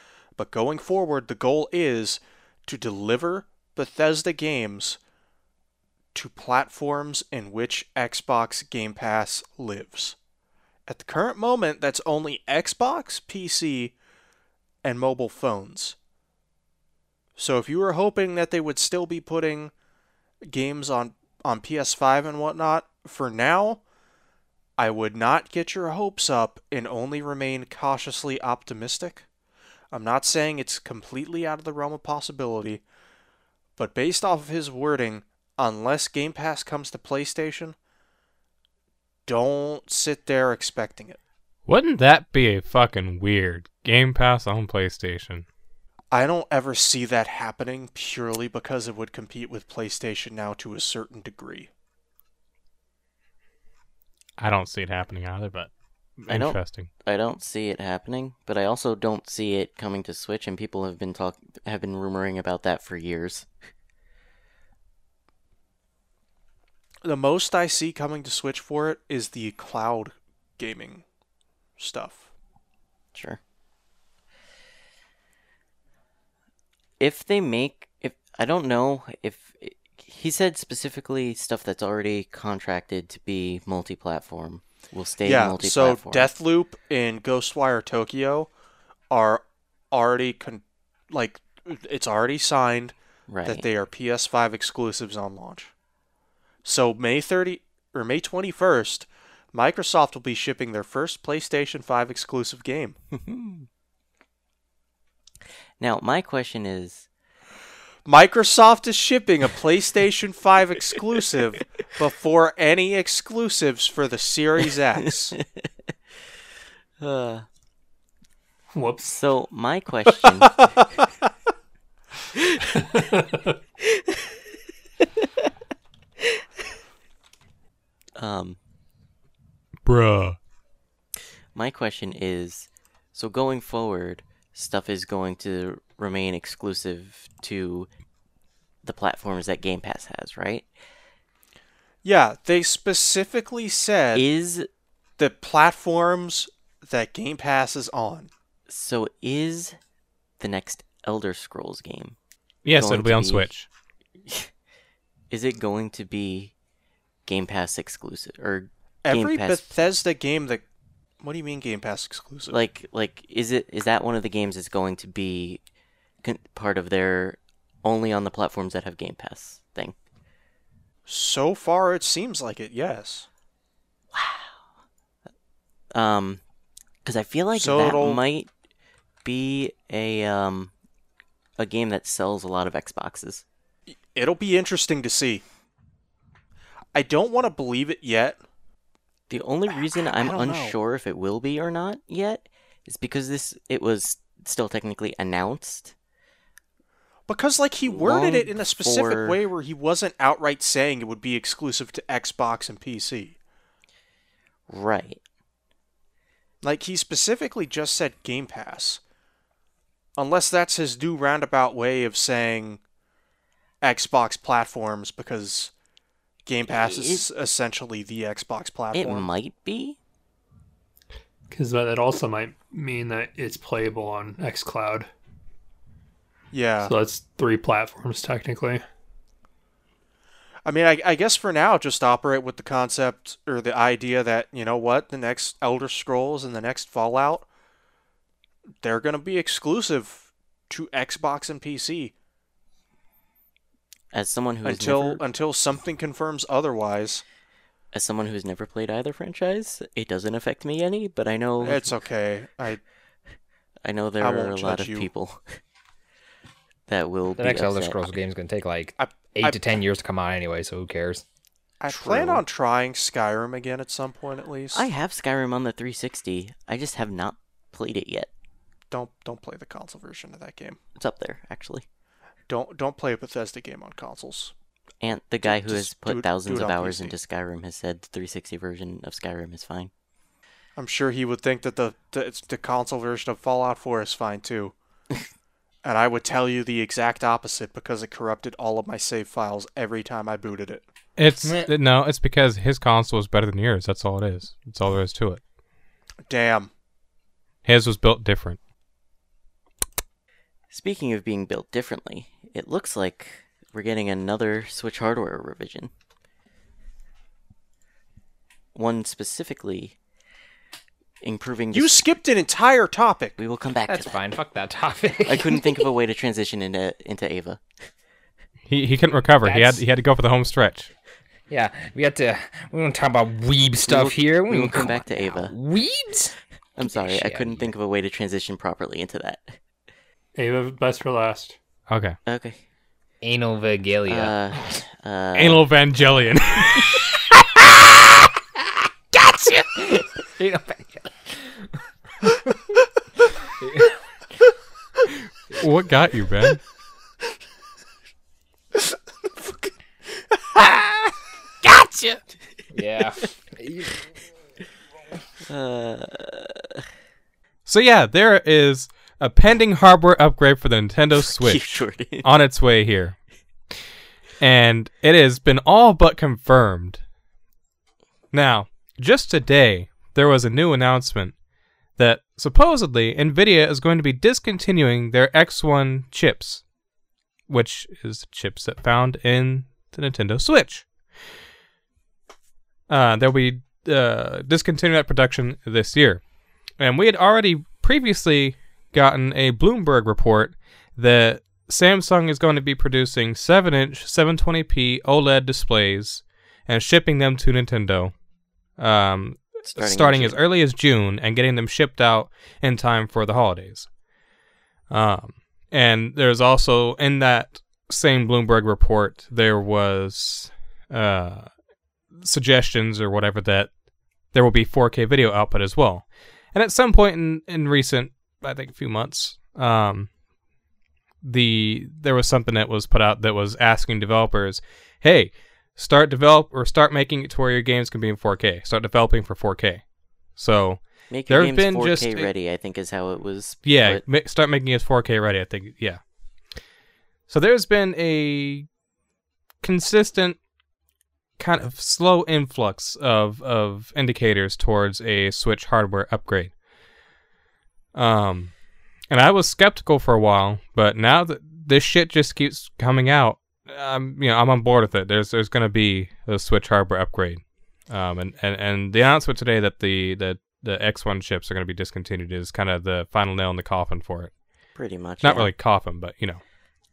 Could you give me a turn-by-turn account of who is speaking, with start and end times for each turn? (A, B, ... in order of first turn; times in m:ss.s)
0:00.4-0:05.0 A
0:06.1-0:10.2 A
0:10.9-0:13.9 A
0:14.8-0:16.0 A
0:17.4-0:19.7 A
0:20.4-0:23.8 A
0:24.8-0:29.2 A
0:29.9-0:32.8 A
0:33.8-0:37.8 A
0:39.2-0:41.2 A
0:41.7-0:45.4 B
0:46.1-0:51.7 A
0:54.4-0:56.9 B
0:56.3-1:03.5 C
1:07.0-1:11.0 A
1:11.8-1:12.3 A
1:13.1-1:13.4 C
1:17.0-1:26.3 C
1:25.2-1:28.5 A
1:29.1-1:35.7 A
1:33.3-1:33.6 C
1:36.6-1:43.0 A
1:43.1-1:43.6 C
1:45.8-1:47.0 C
1:48.0-1:55.3 A
1:57.0-1:57.4 C
1:58.7-1:59.2 D
1:59.0-2:00.6 C
2:02.7-2:03.6 D
2:08.2-2:08.6 C
2:09.8-2:10.4 B
2:11.5-2:17.9 C
2:18.8-2:20.7 C
2:22.0-2:24.3 A
2:24.1-2:24.7 C
2:25.2-2:28.3 A
2:28.7-2:29.8 C
2:30.4-2:32.2 C
2:32.6-2:33.7 B
2:32.7-2:33.5 C
2:35.3-2:36.5 C
2:37.2-2:39.7 C
2:39.0-2:40.6 A
2:41.2-2:42.6 A
2:42.5-2:45.6 C
2:46.2-2:49.9 C
2:51.0-2:53.3 A
2:54.1-2:54.6 C
2:55.9-2:56.4 C
2:57.0-2:58.5 C
2:57.6-2:58.2 A
2:59.2-3:00.7 C
3:01.6-3:03.4 C
3:03.9-3:05.4 A
3:06.9-3:08.4 A
3:09.3-3:15.9 C
3:10.0-3:10.8 A
3:17.3-3:23.4 A
3:17.8-3:19.4 C
3:24.7-3:25.2 C
3:26.6-3:29.0 A
3:30.2-3:32.8 A
3:33.8-3:35.7 A
3:36.4-3:39.3 A
3:36.7-3:37.3 C
3:38.9-3:40.0 C
3:41.5-3:45.1 D
3:46.5-3:46.9 A
3:46.8-3:48.8 D
3:50.6-3:57.5 A
3:58.8-4:02.1 A
4:04.1-4:05.2 C
4:04.6-4:07.2 A
4:07.9-4:12.0 C
4:11.6-4:12.8 A
4:13.8-4:15.6 C
4:14.2-4:15.1 A
4:16.9-4:18.0 C
4:17.4-4:21.2 E
4:19.0-4:19.6 A
4:21.8-4:24.9 A
4:21.9-4:22.4 C
4:24.7-4:28.3 C
4:28.9-4:30.8 A
4:31.0-4:31.8 C
4:32.5-4:34.5 A
4:35.0-4:39.9 C
4:35.4-4:37.1 A
4:40.8-4:44.7 A
4:45.8-4:50.9 A
4:51.2-4:55.4 B
4:51.4-4:51.7 E
4:56.3-4:56.7 A
4:57.6-4:58.6 B
5:00.7-5:05.9 C
5:08.7-5:10.0 C
5:11.2-5:12.0 C
5:11.7-5:13.4 A
5:13.4-5:14.2 C
5:13.9-5:15.9 E
5:15.2-5:17.6 C
5:18.7-5:20.9 B
5:19.4-5:19.8 E
5:21.5-5:27.7 E
5:23.8-5:25.5 C
5:26.8-5:29.6 C
5:30.3-5:31.6 D
5:31.9-5:32.2 B
5:32.2-5:32.6 C
5:33.2-5:34.8 E
5:34.1-5:35.7 C
5:35.4-5:37.0 B
5:37.5-5:38.2 E
5:39.1-5:41.7 E
5:42.2-5:42.8 E
5:43.4-5:44.0 E
5:45.5-5:46.6 B
5:50.6-5:51.0 E
5:51.8-5:52.1 C
5:52.7-5:53.9 E
5:55.4-5:56.8 C
5:57.6-6:03.2 B
6:01.2-6:02.3 C
6:04.4-6:07.0 B
6:08.3-6:11.3 B
6:12.0-6:16.6 B
6:17.5-6:20.9 B
6:22.9-6:26.2 B
6:26.8-6:38.1 B
6:38.8-6:43.9 B
6:39.6-6:40.4 C
6:44.9-6:51.5 B
6:52.1-6:53.7 B
6:54.3-7:00.1 B
7:01.2-7:12.3 B
7:11.1-7:14.0 C
7:13.6-7:16.0 B
7:17.3-7:18.7 B
7:19.6-7:20.4 B
7:21.4-7:26.5 B
7:27.9-7:28.6 B
7:29.1-7:44.3 B
7:44.7-7:45.5 C
7:45.2-7:46.4 B